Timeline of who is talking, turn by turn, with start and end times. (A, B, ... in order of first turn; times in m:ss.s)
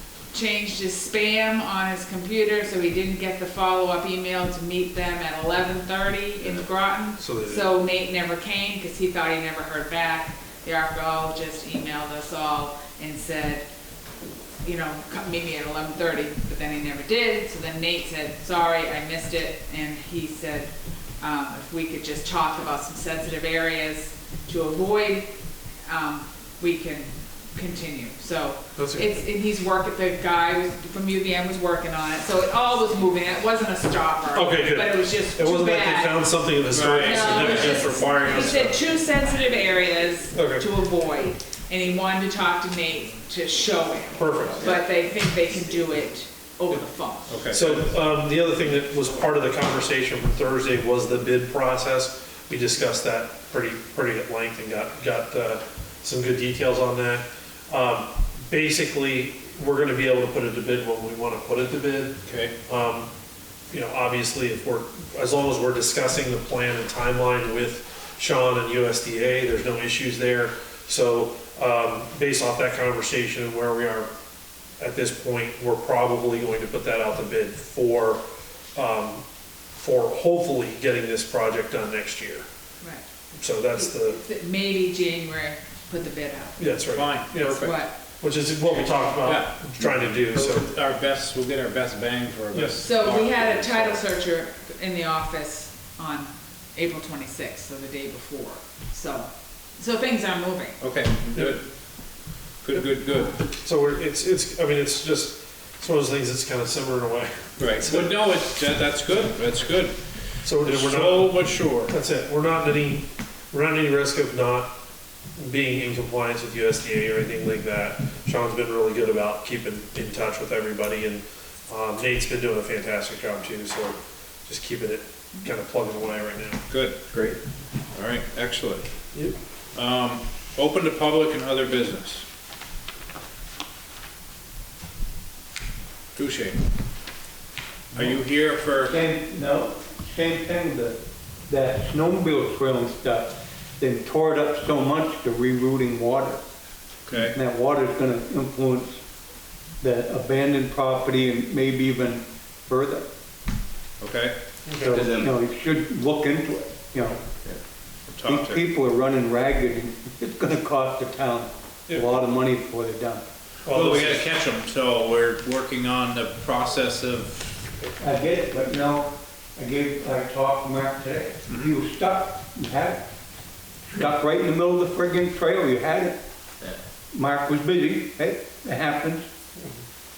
0:00.3-0:13.7 A
0:07.2-0:07.7 B
0:14.6-0:25.3 A
0:25.8-0:36.3 A
0:28.8-0:29.0 B
0:34.3-0:38.8 B
0:36.7-0:38.0 C
0:36.8-0:47.4 A
0:40.3-0:40.6 B
0:44.2-0:44.7 B
0:47.3-0:47.9 C
0:47.5-1:03.1 B
1:02.2-1:02.5 C
1:03.7-1:14.1 B
1:14.8-1:18.2 B
1:18.7-1:19.2 B
1:19.8-1:22.5 B
1:23.4-1:24.2 B
1:23.7-1:26.6 A
1:26.6-1:30.7 B
1:26.9-1:27.8 C
1:27.5-1:27.9 A
1:28.6-1:34.0 C
1:32.8-1:40.8 A
1:40.8-1:41.6 C
1:41.3-1:41.6 B
1:42.6-1:43.3 C
1:43.4-1:48.1 B
1:47.6-1:50.0 C
1:50.4-1:54.7 B
1:50.6-1:51.9 C
1:55.4-2:06.6 B
2:06.7-2:07.4 C
2:07.9-2:08.9 C
2:09.7-2:12.2 C
2:16.1-2:16.6 C
2:17.9-2:19.0 C
2:18.8-2:26.4 D
2:27.0-2:27.3 C
2:27.1-2:29.0 D
2:29.8-2:33.1 D
2:34.0-2:35.3 C
2:34.7-2:35.0 B
2:34.8-2:37.2 D
2:38.1-2:38.6 C
2:38.2-2:43.2 D
2:43.6-2:44.2 B
2:43.7-2:47.5 C
2:48.0-2:53.0 D
2:53.9-2:56.2 D
2:57.1-2:59.3 D